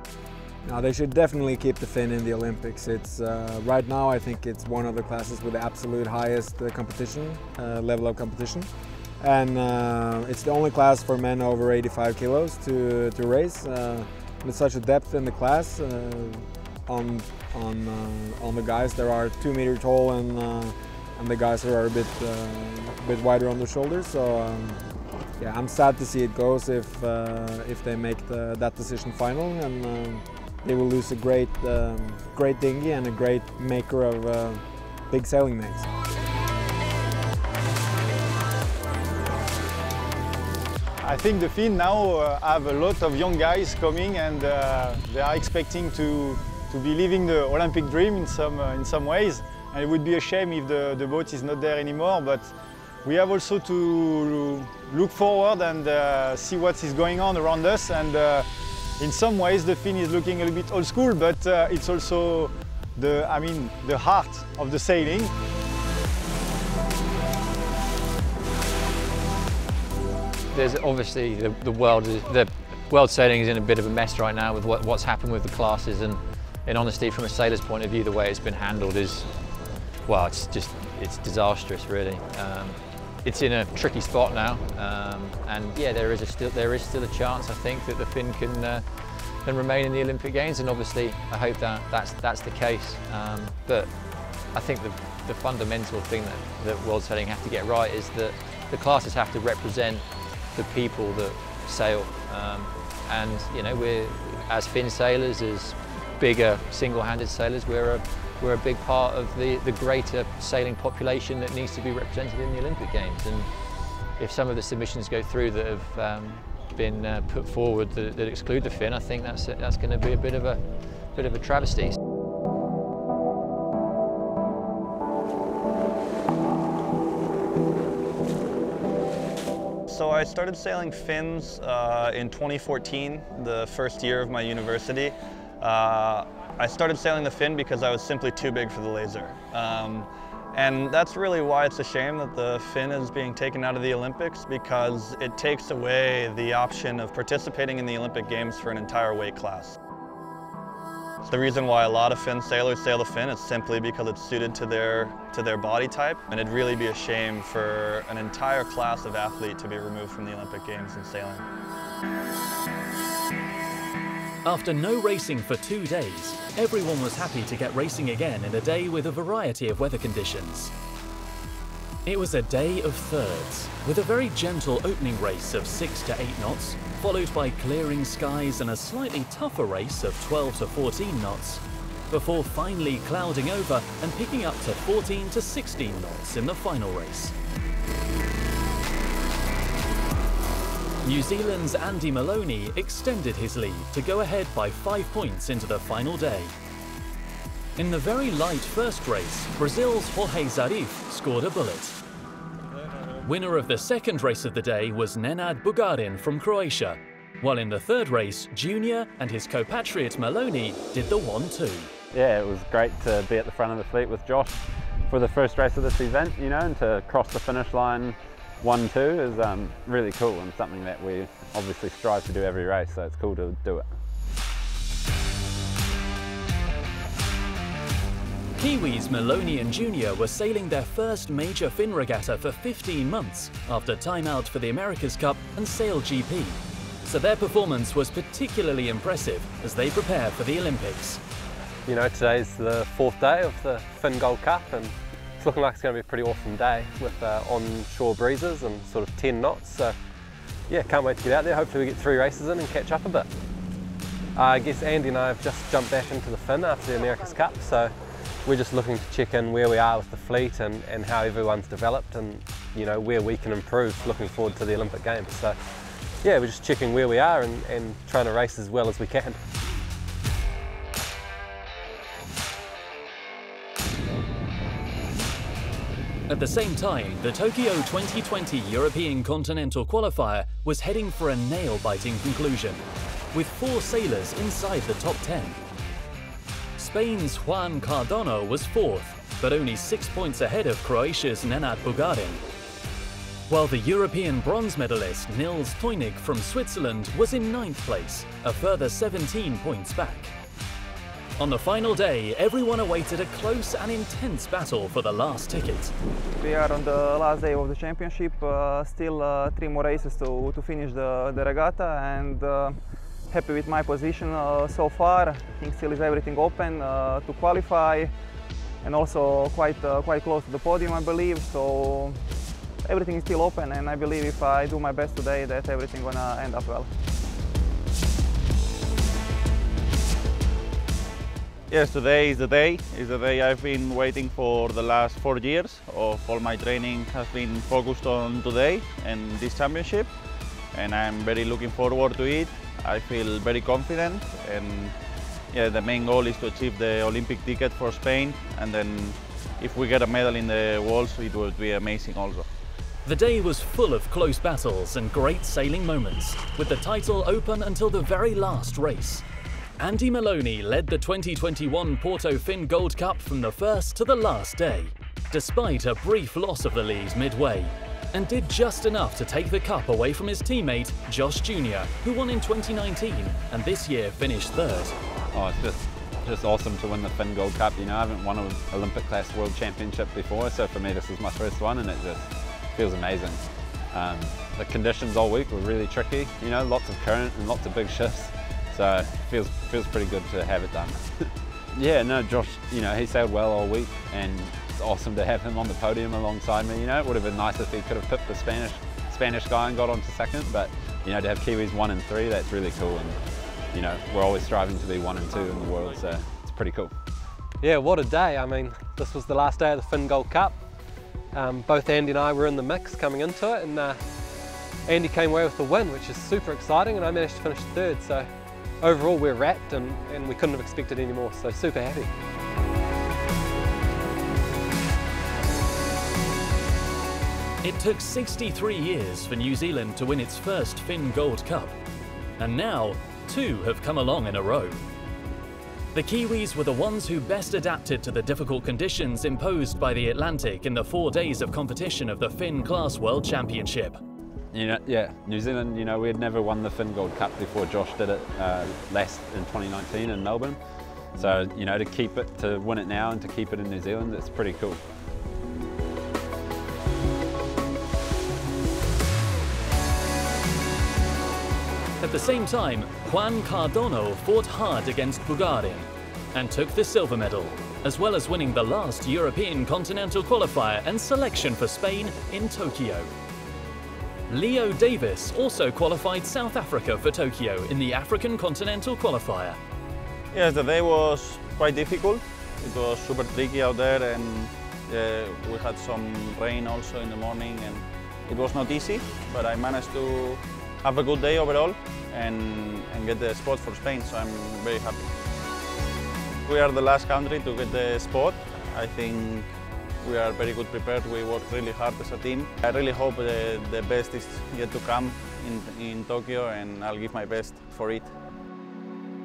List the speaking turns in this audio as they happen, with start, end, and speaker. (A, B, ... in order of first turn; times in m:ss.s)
0:00.6-0:24.8 A
0:25.4-0:35.9 A
0:41.0-0:58.5 B
0:59.0-1:05.3 B
1:10.5-1:19.3 C
1:20.0-1:33.9 C
1:34.5-1:53.5 C
1:54.2-2:02.0 C
2:09.9-2:29.8 D
2:31.3-2:41.4 D
2:44.4-2:50.7 E
2:52.0-3:07.3 E
3:11.0-3:16.5 E
3:17.8-3:22.0 E
3:23.2-3:31.9 E
3:32.1-3:43.9 F
3:48.6-4:01.2 E
4:01.9-4:10.0 G
4:10.7-4:13.3 G
4:14.4-4:25.6 G
4:26.2-4:29.4 G
4:36.3-4:45.6 E
4:46.8-4:52.4 E
4:53.5-5:00.3 E
5:01.4-5:05.9 E
5:06.4-5:18.1 H
5:18.8-5:22.2 H
5:22.8-5:26.9 H
5:31.7-5:40.1 I
5:40.7-5:45.0 I
5:45.5-5:52.5 I
5:53.0-5:59.2 E
5:59.8-6:15.0 E
6:15.3-6:43.2 F
6:43.7-6:46.9 F
6:47.6-6:54.2 G
6:54.8-7:02.1 G
7:07.6-7:11.8 E
7:12.4-7:14.8 E
7:15.9-7:24.0 E
7:24.5-7:34.8 F
7:42.0-7:53.1 E
7:54.3-7:59.6 E
8:00.3-8:15.1 I
8:16.4-8:28.1 I